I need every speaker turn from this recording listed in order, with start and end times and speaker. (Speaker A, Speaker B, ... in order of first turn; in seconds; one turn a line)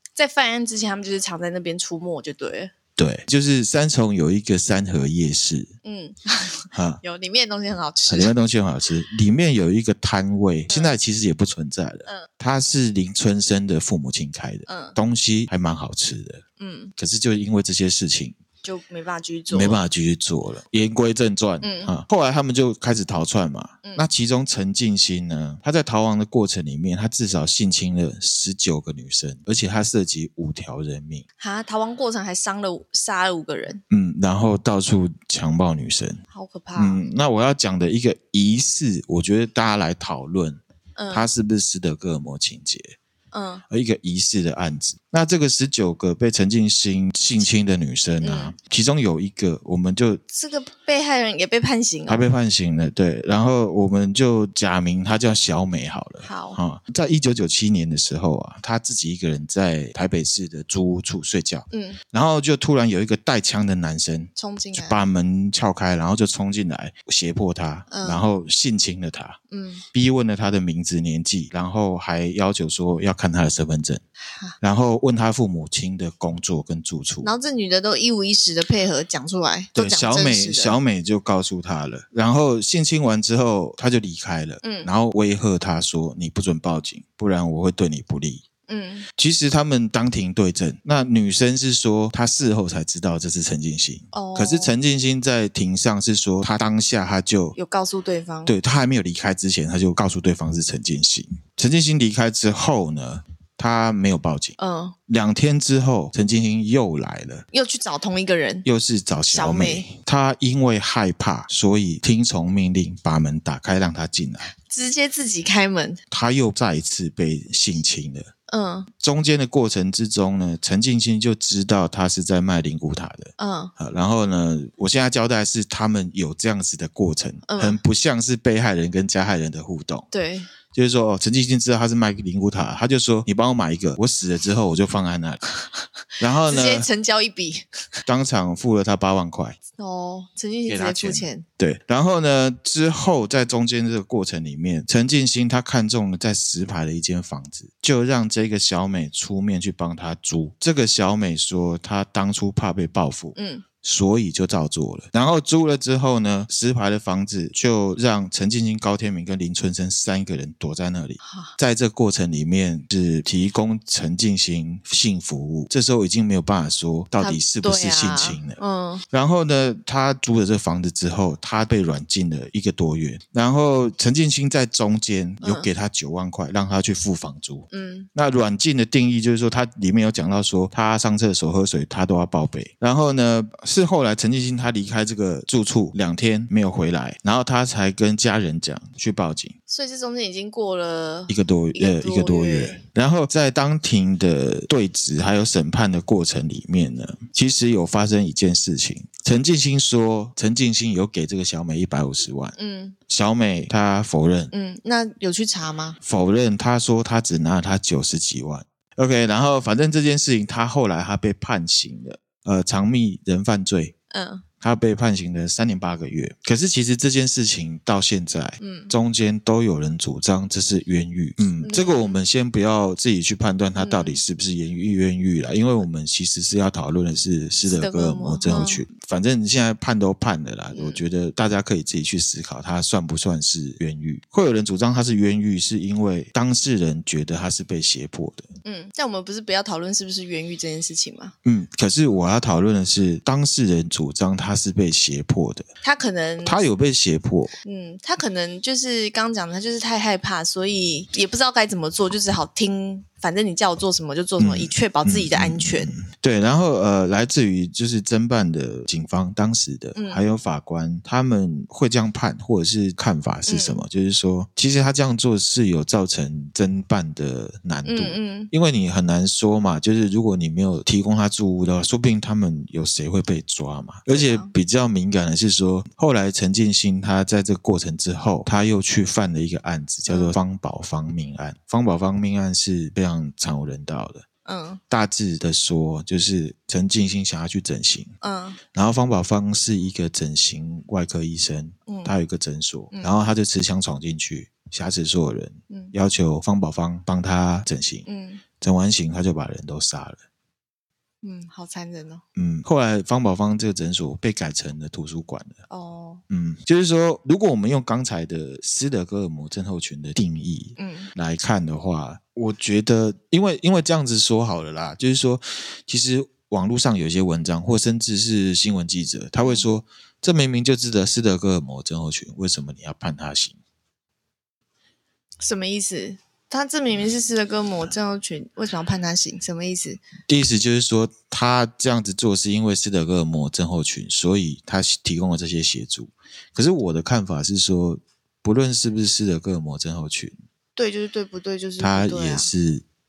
Speaker A: 0.2-2.7
Speaker B: 3.0-5.7
Speaker A: 5.8-8.3
Speaker B: 6.7-7.0
Speaker B: 8.1-16.4
Speaker A: 10.7-10.9
Speaker A: 14.7-15.0
Speaker A: 16.6-16.9
Speaker B: 17.0-18.4
Speaker A: 18.6-19.8
Speaker B: 19.5-31.2
Speaker A: 21.6-21.9
Speaker A: 31.4-33.8
Speaker B: 33.9-36.2
Speaker A: 36.3-37.0
Speaker B: 36.8-43.0
Speaker A: 41.0-41.3
Speaker A: 43.3-43.6
Speaker B: 43.7-50.2
Speaker A: 48.2-48.5
Speaker A: 50.3-52.2
Speaker B: 52.1-69.4
Speaker A: 56.2-56.6
Speaker A: 61.7-62.0
Speaker A: 64.4-65.0
Speaker A: 67.9-68.2
Speaker A: 69.5-69.8
Speaker B: 69.9-74.0
Speaker B: 74.6-77.3
Speaker A: 77.2-80.8
Speaker B: 79.7-88.4
Speaker A: 84.6-84.9
Speaker A: 88.7-89.1
Speaker B: 89.2-97.6
Speaker A: 94.1-94.8
Speaker A: 97.5-98.5
Speaker B: 98.5-104.6
Speaker A: 104.6-105.0
Speaker B: 105.1-107.5
Speaker A: 107.5-108.7
Speaker B: 108.6-114.5
Speaker A: 109.3-109.9
Speaker A: 114.5-116.0
Speaker B: 116.1-118.3
Speaker A: 118.5-118.9
Speaker B: 119.0-130.1
Speaker A: 123.4-123.7
Speaker A: 127.5-127.8
Speaker A: 130.1-130.5
Speaker B: 130.7-135.4
Speaker B: 136.2-136.9
Speaker A: 136.4-137.6
Speaker B: 138.1-139.6
Speaker A: 139.8-141.4
Speaker B: 140.7-168.6
Speaker A: 153.3-153.6
Speaker A: 161.2-161.5
Speaker A: 167.2-169.1
Speaker B: 169.1-189.6
Speaker A: 175.4-175.7
Speaker A: 177.7-178.1
Speaker A: 189.7-192.8
Speaker B: 191.3-202.6
Speaker A: 202.6-203.0
Speaker B: 203.1-204.5
Speaker A: 204.5-206.0
Speaker B: 206.0-213.9
Speaker A: 214.1-214.4
Speaker B: 214.6-238.5
Speaker A: 218.6-218.9
Speaker A: 221.6-222.2
Speaker A: 223.8-224.2
Speaker A: 227.7-228.8
Speaker A: 230.7-231.0
Speaker A: 238.6-241.3
Speaker B: 241.4-245.7
Speaker A: 245.8-246.6
Speaker B: 246.4-247.5
Speaker A: 247.6-255.9
Speaker B: 254.4-284.2
Speaker A: 259.9-260.2
Speaker A: 263.5-263.9
Speaker A: 267.9-268.5
Speaker A: 274.1-274.5
Speaker A: 280.1-280.4
Speaker A: 284.4-284.8
Speaker B: 284.9-288.1
Speaker A: 288.2-288.6
Speaker B: 288.7-298.1
Speaker A: 291.9-292.2
Speaker A: 295.7-295.9
Speaker A: 298.1-298.4
Speaker B: 298.6-300.2
Speaker A: 301.2-302.2
Speaker B: 302.4-305.6
Speaker A: 305.7-306.2
Speaker B: 306.3-323.6
Speaker A: 310.8-311.1
Speaker A: 319.4-319.7
Speaker A: 325.4-330.0
Speaker B: 330.3-340.4
Speaker A: 340.8-342.5
Speaker B: 341.8-342.8